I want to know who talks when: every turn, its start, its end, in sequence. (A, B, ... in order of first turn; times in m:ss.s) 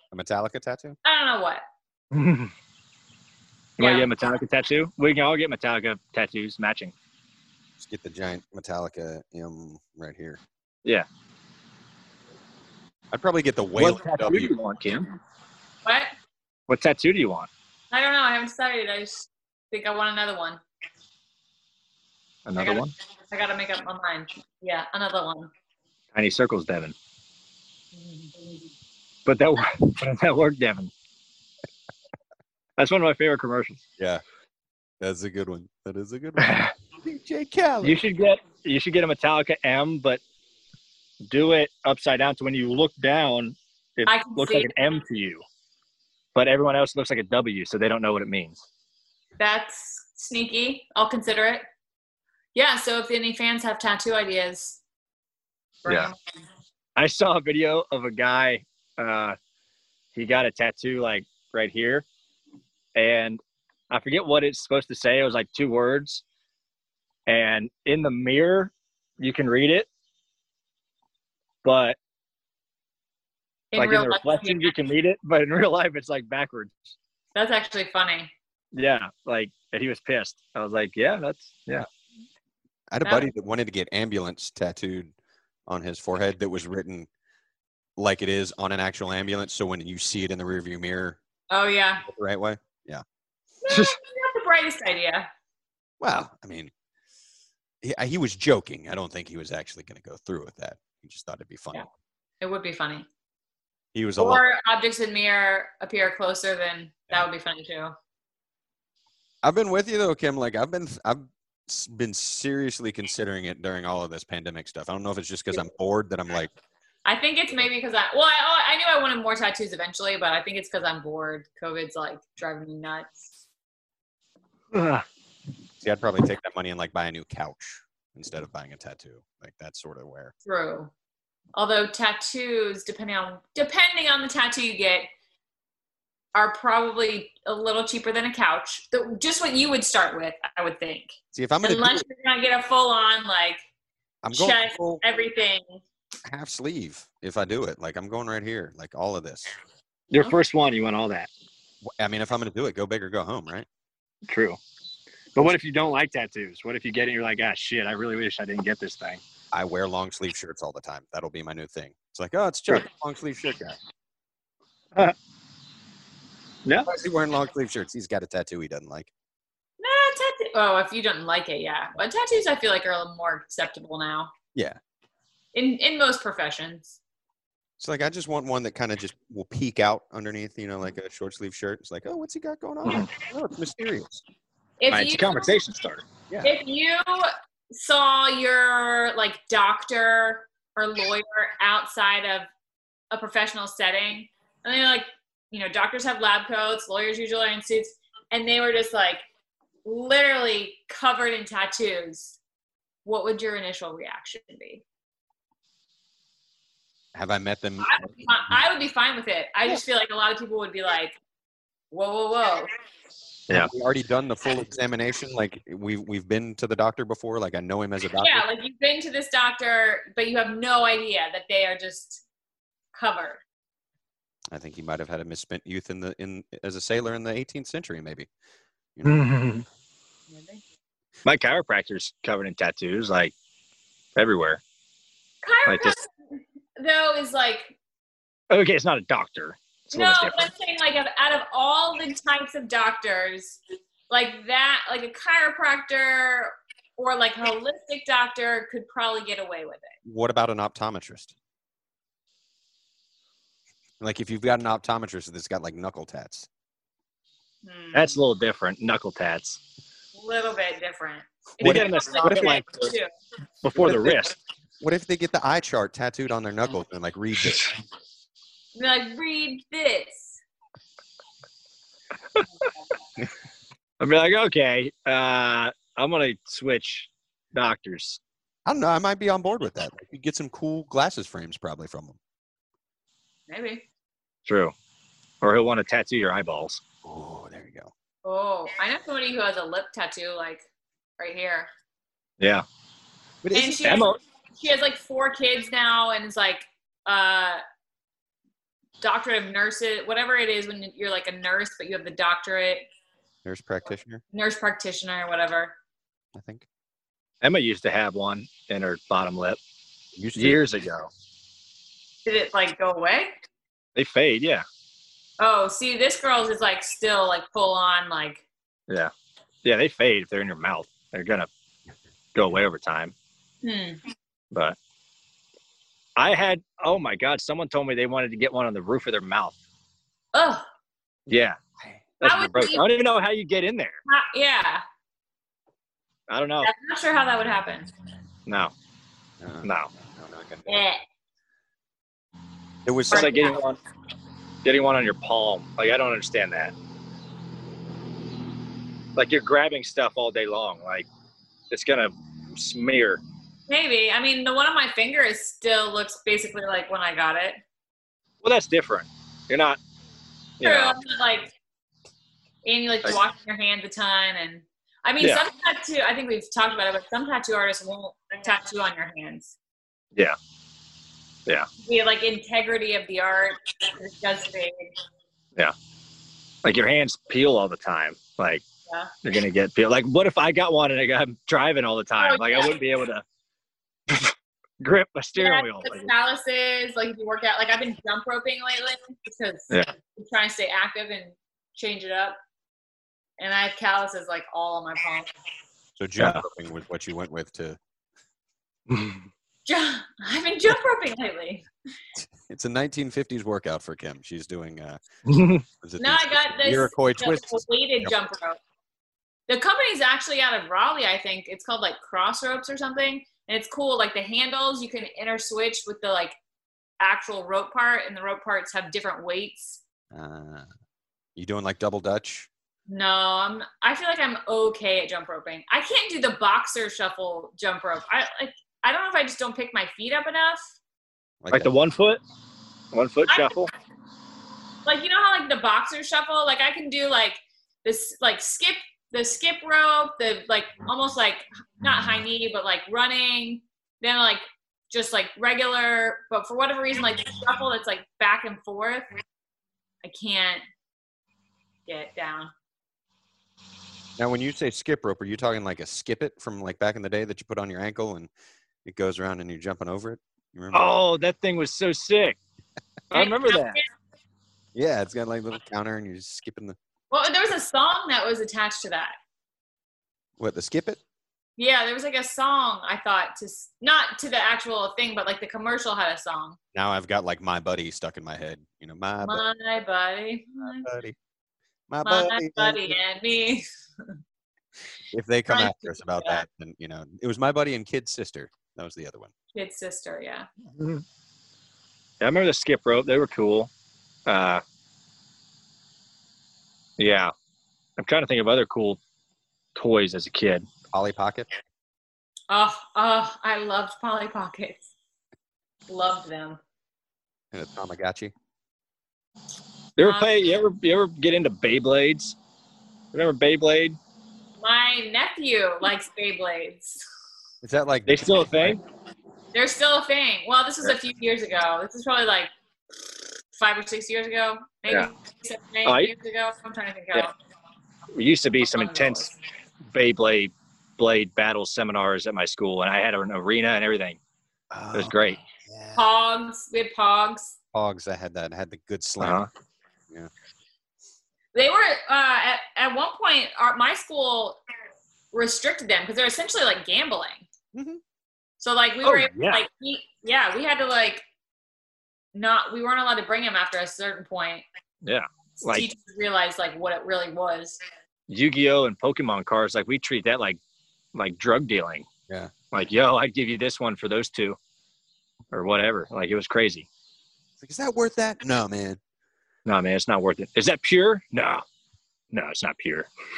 0:00.1-0:01.0 A
0:01.0-0:01.6 B
0:02.1-0:02.5 C
0:03.8-0:06.9 C
0:03.8-0:04.1 B
0:07.8-0:10.4 A
0:13.1-0:14.5 A
0:13.8-0:15.2 C
0:15.8-0:16.1 B
0:16.7-0:17.5 C
0:17.9-0:20.6 B
0:22.4-0:22.9 C
0:22.6-0:25.5 B
0:26.1-0:26.9 C
0:27.9-0:28.3 B
0:29.2-0:30.9 C
0:32.8-0:33.8 C
0:35.0-0:38.0 A
0:36.4-0:36.7 C
0:37.8-0:40.2 C
0:41.3-0:45.4 C
0:44.1-0:44.7 B
0:46.3-0:48.6 C
0:49.4-0:51.6 B
0:52.5-0:54.8 B
0:55.8-0:56.1 B
0:57.0-0:59.4 C
1:00.1-1:02.0 C
1:02.9-1:06.2 C
1:07.3-1:09.9 C
1:11.6-1:12.0 C
1:13.7-1:14.7 B
1:13.8-1:16.9 C
1:17.3-1:18.3 B
1:18.7-1:21.9 C
1:22.9-1:25.1 A
1:23.0-1:23.3 B
1:25.7-1:27.1 A
1:28.0-1:31.2 A
1:31.5-1:32.0 B
1:32.0-1:33.0 A
1:33.6-1:35.3 B
1:33.7-1:33.9 C
1:36.0-1:36.7 A
1:37.8-1:41.8 A
1:42.4-1:43.1 B
1:43.9-1:44.4 A
1:44.2-1:47.9 B
1:49.4-1:56.5 A
1:57.0-2:03.3 B
2:04.7-2:05.0 C
2:05.8-2:10.3 A
2:10.4-2:10.9 B
2:11.5-2:15.1 B
2:16.3-2:23.6 B
2:21.3-2:22.0 A
2:24.2-2:25.0 A
2:24.3-2:25.8 B
2:26.2-2:29.6 A
2:30.1-2:31.3 C
2:31.8-2:33.6 A
2:34.3-2:34.6 C
2:35.3-2:39.2 C
2:39.5-2:43.8 A
2:46.8-2:49.1 A
2:49.8-2:54.3 B
2:55.5-2:57.0 B
2:57.8-3:04.2 A
3:02.8-3:03.1 C
3:04.8-3:05.6 B
3:04.9-3:06.0 C
3:06.4-3:12.5 B
3:13.1-3:19.2 B
3:19.8-3:22.4 B
3:23.0-3:24.8 B
3:27.1-3:28.5 A
3:27.8-3:31.2 B
3:31.9-3:32.7 B
3:33.5-3:38.4 A
3:38.2-3:42.2 B
3:42.9-3:43.4 B
3:44.5-3:48.3 A
3:49.0-3:49.6 C
3:50.3-3:50.6 B
3:51.2-3:53.3 C
3:54.2-3:54.6 C
3:55.4-3:57.7 B
3:55.6-3:56.0 C
3:58.5-4:00.5 C
3:59.9-4:10.0 B
4:10.0-4:11.3 A
4:14.0-4:16.5 A
4:17.6-4:18.2 B
4:17.9-4:19.6 C
4:20.1-4:23.1 B
4:21.6-4:22.9 C
4:21.6-4:22.6 A
4:23.6-4:24.4 C
4:23.8-4:24.2 A
4:24.8-4:27.7 A
4:28.7-4:30.4 B
4:34.0-4:38.2 C
4:38.6-4:42.2 A
4:43.5-4:43.8 B
4:44.4-4:44.7 C
4:45.4-4:46.8 C
4:47.0-4:47.9 A
4:48.2-4:50.6 B
4:51.2-4:51.7 B
4:52.4-4:52.6 C
4:53.4-4:54.0 A
4:53.5-4:57.6 B
4:53.8-4:54.2 C
4:59.0-5:02.9 B
5:03.4-5:04.2 A
5:04.3-5:05.8 B
5:06.3-5:06.6 A
5:07.4-5:09.6 C
5:10.2-5:10.6 A
5:10.4-5:11.1 C
5:12.2-5:13.3 B
5:14.0-5:14.6 C
5:15.4-5:18.4 B
5:19.6-5:21.5 C
5:22.3-5:23.1 C
5:23.6-5:24.0 B
5:24.5-5:24.8 C
5:26.2-5:29.6 C
5:30.3-5:30.6 B
5:31.3-5:31.6 C
5:32.2-5:34.0 C
5:32.2-5:32.8 B
5:34.0-5:34.8 B
5:36.3-5:36.7 C
5:36.6-5:37.9 B
5:38.5-5:38.7 C
5:39.4-5:40.9 A
5:39.6-5:39.9 C
5:40.6-5:41.0 B
5:42.8-5:43.3 A
5:43.1-5:43.8 C
5:43.1-5:43.6 B
5:44.6-5:46.7 C
5:49.2-5:51.1 C
5:51.7-5:53.2 C
5:53.7-5:57.6 B
5:58.4-5:59.8 C
6:00.6-6:01.0 C
6:00.6-6:01.5 B
6:02.6-6:09.5 B
6:11.8-6:14.9 B
6:16.6-6:18.6 C
6:19.2-6:23.2 C
6:22.2-6:22.8 B
6:24.1-6:26.1 C
6:25.4-6:32.4 B
6:33.4-6:35.3 B
6:36.0-6:37.8 A
6:36.2-6:36.4 C
6:38.9-6:39.2 C
6:39.6-6:41.7 B
6:42.5-6:45.0 A
6:45.2-6:45.6 C
6:45.8-6:48.1 A
6:46.0-6:48.6 B
6:49.5-6:56.4 B
6:57.0-6:59.8 B
7:00.1-7:00.7 A
7:01.4-7:02.5 A
7:02.9-7:10.7 B
7:11.4-7:11.7 A
7:11.5-7:12.2 C
7:12.9-7:13.7 C
7:13.3-7:13.5 B
7:14.8-7:29.1 B
7:30.0-7:30.6 B
7:31.9-7:32.5 B
7:34.2-7:38.3 A
7:38.8-7:40.9 A
7:40.7-7:42.4 C
7:43.1-7:43.8 C
7:43.1-7:43.8 B
7:44.7-7:46.8 A
7:47.1-7:49.1 B
7:50.4-7:51.0 A
7:51.6-7:56.6 B
7:56.7-7:59.4 A
7:59.2-8:00.9 B
8:00.6-8:01.2 A
8:01.9-8:03.0 A
8:02.0-8:03.6 B
8:05.1-8:09.3 A
8:05.5-8:06.4 B
8:09.5-8:10.5 B
8:10.8-8:11.0 C
8:12.2-8:13.7 C
8:14.2-8:14.6 C
8:17.0-8:17.3 C
8:18.0-8:19.0 C
8:19.8-8:20.7 C
8:20.9-8:21.5 A
8:22.5-8:24.9 B
8:25.9-8:26.6 B
8:27.5-8:28.3 A
8:30.0-8:32.4 C
8:30.0-8:30.3 B
8:33.1-8:34.0 C
8:34.6-8:37.0 B
8:37.6-8:38.8 A
8:38.1-8:38.8 C
8:39.5-8:42.5 B
8:43.5-8:47.3 B
8:45.8-8:46.1 C
8:48.1-8:49.3 C
8:48.7-8:49.4 B
8:49.9-8:54.2 C
8:54.7-8:56.0 A
8:54.9-8:55.4 C
8:55.9-8:57.5 B
8:57.7-8:59.4 A
8:59.2-8:59.5 C
9:01.5-9:04.6 B
9:05.3-9:07.4 B
9:07.7-9:08.0 A
9:08.6-9:11.2 B
9:09.0-9:09.6 C
9:12.3-9:14.6 B
9:15.0-9:15.8 C
9:15.6-9:17.8 B
9:18.3-9:20.6 C
9:21.1-9:22.1 C
9:22.3-9:22.5 A
9:22.7-9:24.6 C
9:25.5-9:26.9 C
9:27.6-9:29.0 A
9:29.6-9:31.6 C
9:32.3-9:33.1 C